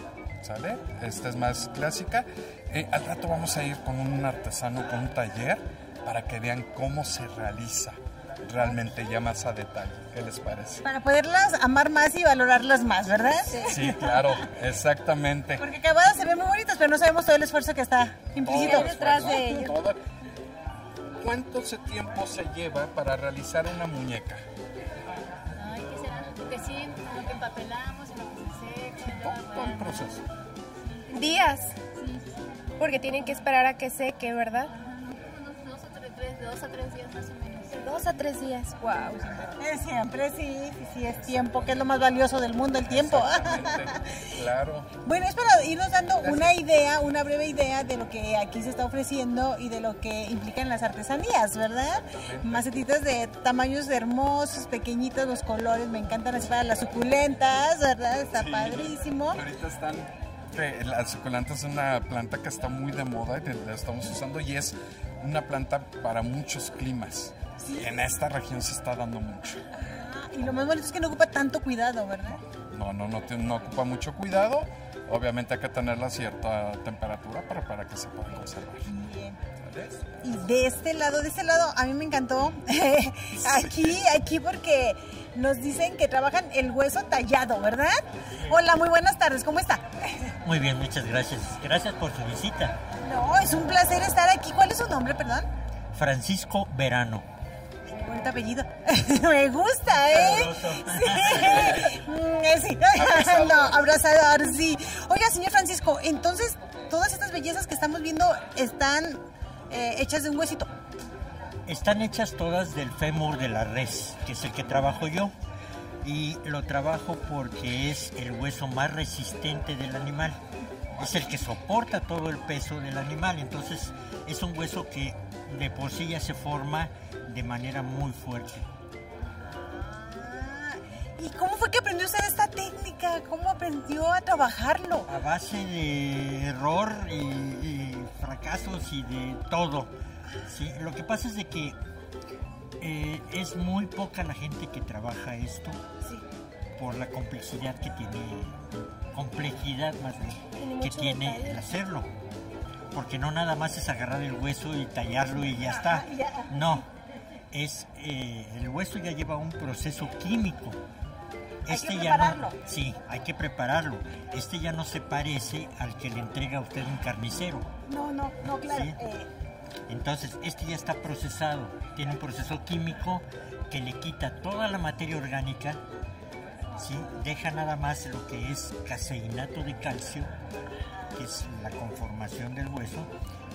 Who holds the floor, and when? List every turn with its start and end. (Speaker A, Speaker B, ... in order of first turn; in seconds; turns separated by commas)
Speaker A: 0.4-10.8, Speaker B: 10.8-14.4, Speaker A: 13.3-15.7, Speaker C: 13.5-13.8, Speaker B: 15.6-19.5, Speaker A: 18.4-20.0, Speaker C: 18.5-19.8, Speaker A: 21.2-24.4, Speaker D: 25.6-30.1, Speaker A: 29.0-30.2, Speaker D: 30.9-31.4, Speaker C: 31.1-31.8, Speaker D: 31.9-32.3, Speaker C: 32.8-34.7, Speaker D: 34.7-37.9, Speaker C: 37.7-39.5, Speaker D: 39.1-39.5, Speaker B: 39.6-44.0, Speaker A: 42.9-44.9, Speaker B: 45.0-59.4, Speaker A: 46.2-46.6, Speaker A: 52.1-52.7, Speaker A: 58.3-69.6, Speaker B: 67.6-68.1, Speaker B: 69.8-72.4, Speaker A: 72.7-78.9, Speaker B: 78.9-79.4, Speaker A: 79.6-80.5, Speaker B: 80.2-89.8, Speaker A: 83.4-84.0, Speaker E: 90.4-92.8, Speaker B: 93.0-95.5, Speaker E: 95.9-97.3, Speaker B: 97.9-110.7, Speaker E: 99.9-101.8, Speaker A: 101.3-102.0, Speaker A: 102.9-104.0, Speaker E: 111.7-115.3, Speaker E: 116.0-120.4, Speaker E: 121.0-128.7, Speaker B: 129.5-135.1, Speaker E: 135.1-139.9, Speaker E: 140.4-141.8, Speaker E: 142.8-145.8, Speaker E: 146.8-152.1, Speaker C: 150.6-151.7, Speaker E: 152.9-156.8, Speaker B: 155.8-156.5, Speaker E: 157.5-160.8, Speaker E: 161.7-167.7, Speaker B: 161.7-162.6, Speaker B: 167.9-169.3, Speaker E: 168.7-169.0, Speaker E: 169.9-175.8, Speaker E: 176.8-180.3, Speaker E: 181.1-183.1